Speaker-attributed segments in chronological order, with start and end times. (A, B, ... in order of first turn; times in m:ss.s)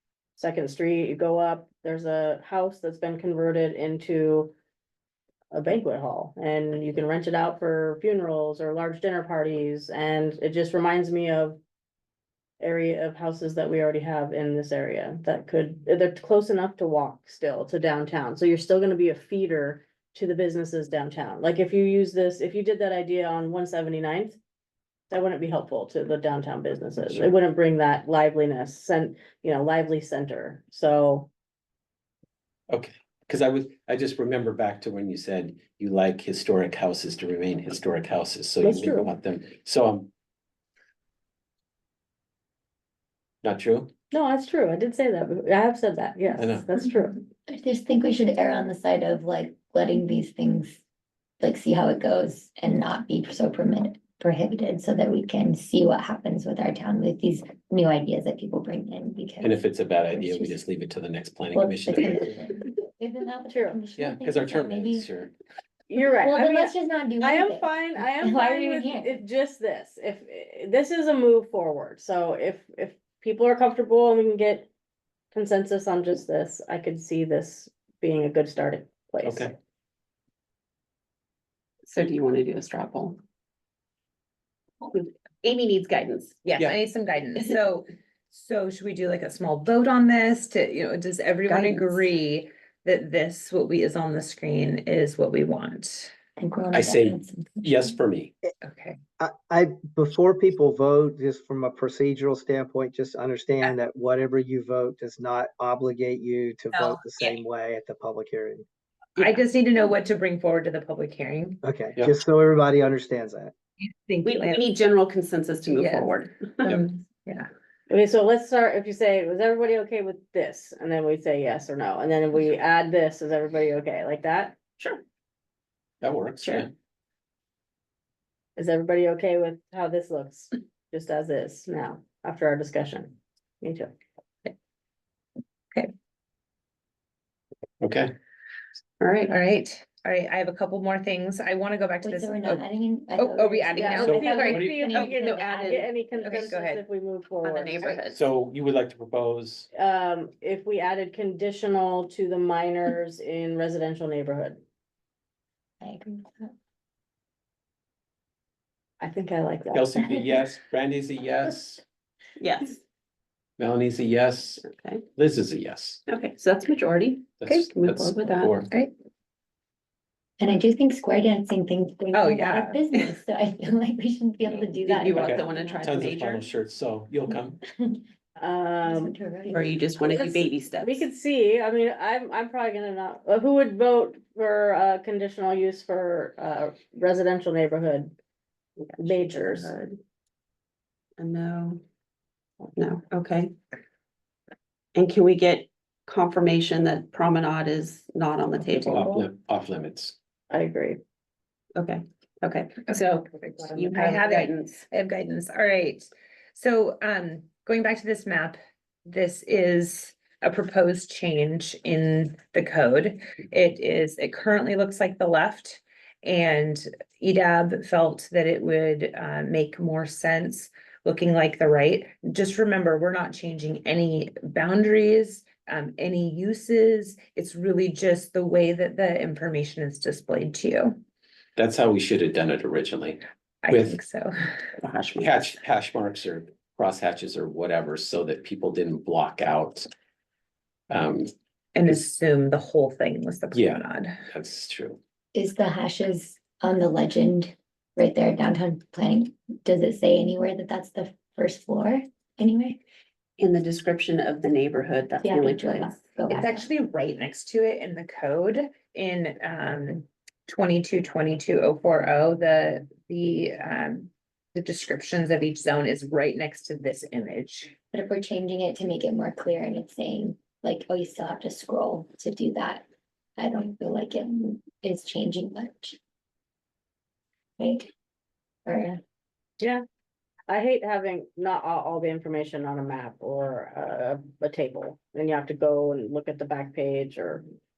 0:00.4-0:04.5 A
0:05.5-0:11.6 A
0:12.6-0:24.4 A
0:25.1-0:31.3 A
0:32.7-0:40.1 B
0:38.6-0:39.1 A
0:43.4-0:43.9 B
0:44.1-0:47.2 A
0:46.4-0:46.7 B
0:47.5-0:50.8 C
0:51.4-1:00.6 C
0:59.4-1:02.4 B
1:01.5-1:05.1 C
1:03.5-1:03.8 A
1:04.0-1:05.3 B
1:05.9-1:14.7 A
1:06.0-1:09.2 C
1:15.3-1:19.6 A
1:19.2-1:19.5 B
1:21.8-1:23.2 D
1:24.8-1:26.4 D
1:26.2-1:36.1 E
1:31.4-1:32.0 D
1:36.4-1:37.9 C
1:36.7-1:38.3 B
1:38.6-1:39.0 E
1:39.2-1:48.6 F
1:46.7-1:47.4 E
1:49.2-1:49.4 D
1:49.2-1:51.6 E
1:51.6-1:53.5 F
1:53.8-1:54.6 E
1:54.2-1:56.8 D
1:55.7-1:57.5 E
1:57.9-2:04.6 A
2:06.0-2:06.7 B
2:06.4-2:06.7 D
2:08.6-2:13.9 A
2:17.8-2:18.1 B
2:19.0-2:19.3 D
2:19.2-2:22.6 E
2:22.0-2:25.9 C
2:23.2-2:25.5 E
2:23.8-2:28.0 A
2:24.0-2:24.8 B
2:25.2-2:25.8 D
2:26.1-2:26.8 E
2:27.4-2:28.2 D
2:28.1-2:29.7 B
2:29.7-2:34.6 A
2:35.8-2:36.5 C
2:39.0-2:39.9 A
2:39.7-2:41.8 B
2:42.4-2:42.8 D
2:43.6-2:46.0 B
2:44.6-2:45.0 D
2:46.1-2:48.6 D
2:47.4-2:48.7 B
2:50.4-2:55.9 C
2:52.1-2:52.8 E
2:54.4-2:57.6 B
2:54.8-2:56.5 D
2:58.4-2:59.1 A
2:58.8-3:00.3 C
2:59.5-3:01.0 D
3:00.0-3:08.1 A
3:08.8-3:10.0 D
3:09.0-3:09.7 A
3:11.2-3:11.8 D
3:12.8-3:13.5 D
3:14.9-3:19.3 D
3:18.8-3:20.1 B
3:20.5-3:21.0 A
3:21.7-3:24.8 D
3:22.9-3:51.0 E
3:51.6-3:54.0 B
3:53.6-3:54.6 E
3:54.8-3:55.5 D
3:55.2-3:59.9 B
4:00.9-4:01.3 B
4:01.7-4:04.2 E
4:03.5-4:05.0 B
4:05.3-4:12.8 C
4:13.4-4:16.0 D
4:15.2-4:16.7 C
4:16.3-4:27.8 E
4:27.9-4:32.8 C
4:33.4-4:36.0 C
4:37.6-4:37.9 C
4:38.6-4:39.0 C
4:40.5-4:47.4 A